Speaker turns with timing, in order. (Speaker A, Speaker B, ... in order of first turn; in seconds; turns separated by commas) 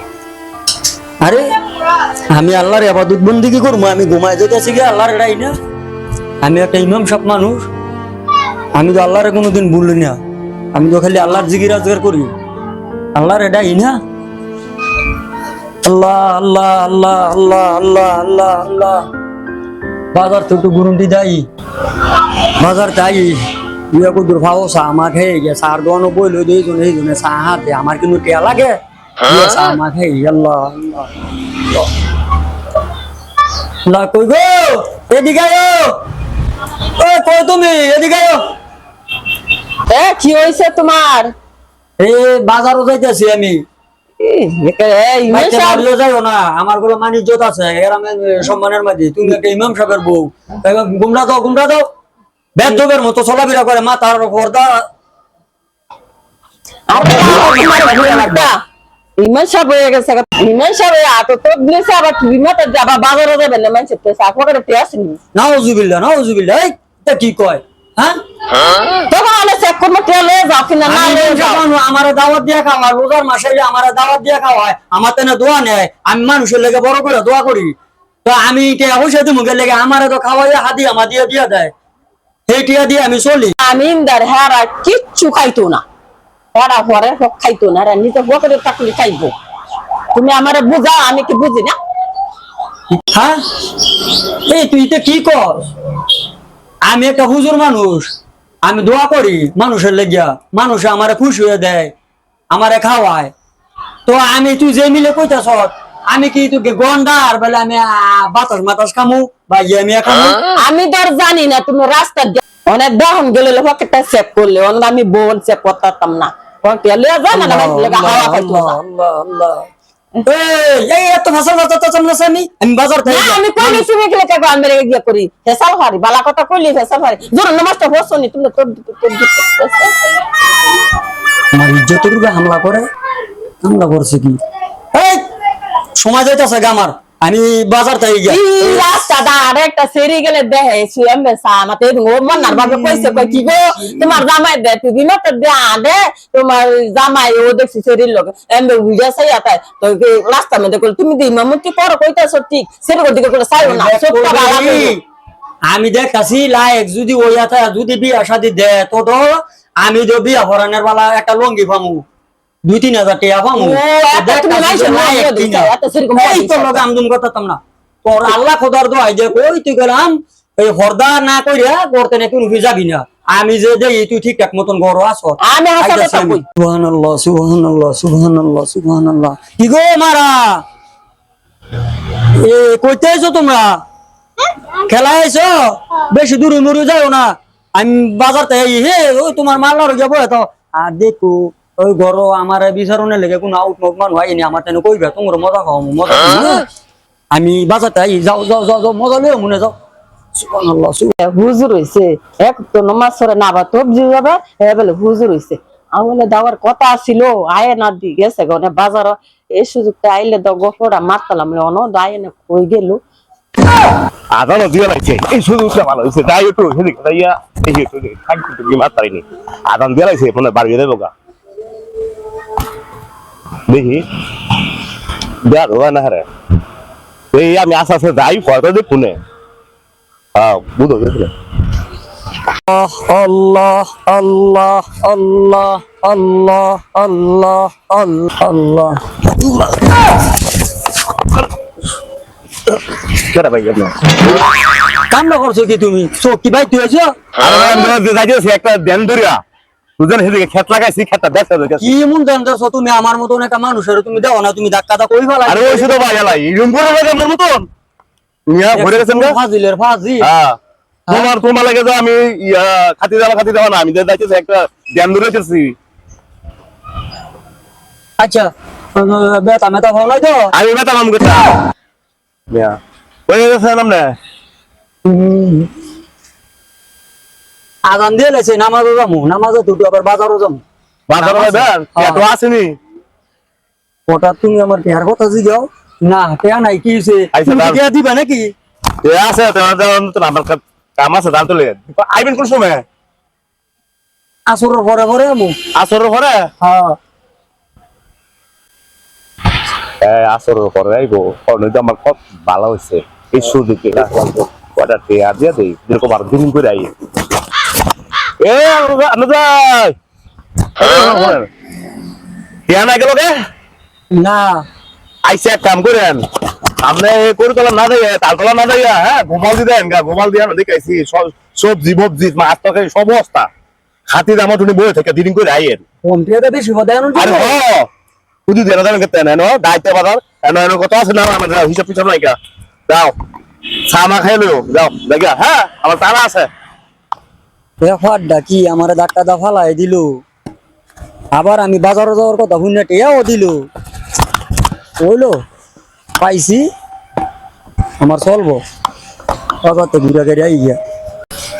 Speaker A: 2.3-5.5, Speaker A: 6.4-7.7, Speaker A: 8.7-10.2, Speaker A: 10.7-12.3, Speaker A: 13.1-14.0, Speaker A: 15.8-19.0, Speaker A: 20.1-21.4, Speaker A: 22.2-23.4, Speaker A: 23.9-31.9, Speaker A: 33.8-36.0, Speaker A: 37.0-38.4, Speaker B: 39.9-41.3, Speaker A: 42.0-43.6, Speaker B: 44.2-45.9, Speaker A: 45.3-51.8, Speaker A: 52.5-54.8, Speaker B: 56.9-58.6, Speaker A: 57.0-58.5, Speaker B: 59.2-65.2, Speaker A: 65.3-68.2, Speaker B: 68.9-71.6, Speaker A: 70.8-81.7, Speaker A: 82.5-83.5, Speaker B: 83.6-85.8, Speaker B: 86.5-89.3, Speaker B: 90.1-91.7, Speaker A: 92.9-93.4, Speaker A: 94.5-95.7, Speaker A: 96.9-98.1, Speaker A: 98.6-101.9, Speaker A: 102.5-103.3, Speaker A: 104.1-110.4, Speaker B: 110.5-118.8, Speaker A: 117.3-119.7, Speaker A: 120.2-123.8, Speaker B: 123.0-130.0, Speaker A: 131.5-132.9, Speaker A: 133.6-134.4, Speaker A: 134.9-135.2, Speaker A: 135.9-138.8, Speaker B: 138.2-154.9, Speaker A: 142.5-144.1, Speaker A: 153.6-155.0, Speaker A: 155.7-162.0, Speaker A: 162.6-180.6, Speaker B: 163.5-166.8, Speaker B: 175.4-176.4, Speaker A: 182.4-183.8, Speaker A: 184.9-196.7, Speaker A: 197.3-199.7, Speaker A: 200.3-201.1, Speaker B: 201.2-213.0, Speaker C: 214.3-221.1, Speaker C: 223.7-224.1, Speaker C: 225.4-226.2, Speaker C: 227.3-229.2, Speaker C: 230.3-231.3, Speaker A: 232.7-239.4, Speaker C: 243.1-244.2, Speaker A: 245.1-247.1, Speaker C: 247.4-249.4, Speaker C: 250.0-251.9, Speaker A: 251.8-255.9, Speaker C: 255.4-257.7, Speaker C: 258.5-259.4, Speaker A: 258.7-260.2, Speaker C: 260.2-260.6, Speaker C: 261.1-265.8, Speaker A: 268.2-270.5, Speaker C: 270.5-271.5, Speaker C: 272.5-272.8, Speaker C: 273.3-274.1, Speaker A: 275.0-275.7, Speaker A: 277.9-280.6, Speaker C: 281.1-282.8, Speaker A: 281.1-282.2, Speaker A: 284.1-288.5, Speaker C: 287.3-287.8, Speaker C: 289.0-292.8, Speaker A: 294.5-295.6, Speaker C: 295.8-296.5, Speaker A: 296.6-297.0, Speaker C: 300.0-306.9, Speaker C: 308.4-309.9, Speaker C: 310.7-311.5, Speaker C: 312.7-313.3, Speaker A: 314.1-314.6, Speaker C: 315.2-316.2, Speaker C: 316.8-323.5, Speaker C: 324.1-325.8, Speaker A: 326.0-327.6, Speaker C: 327.2-327.9, Speaker C: 328.5-332.4, Speaker C: 332.9-333.1, Speaker C: 333.9-336.5, Speaker A: 337.8-340.2, Speaker A: 341.3-343.7, Speaker A: 345.0-345.4, Speaker A: 346.2-346.7, Speaker A: 348.0-348.6, Speaker A: 349.6-350.8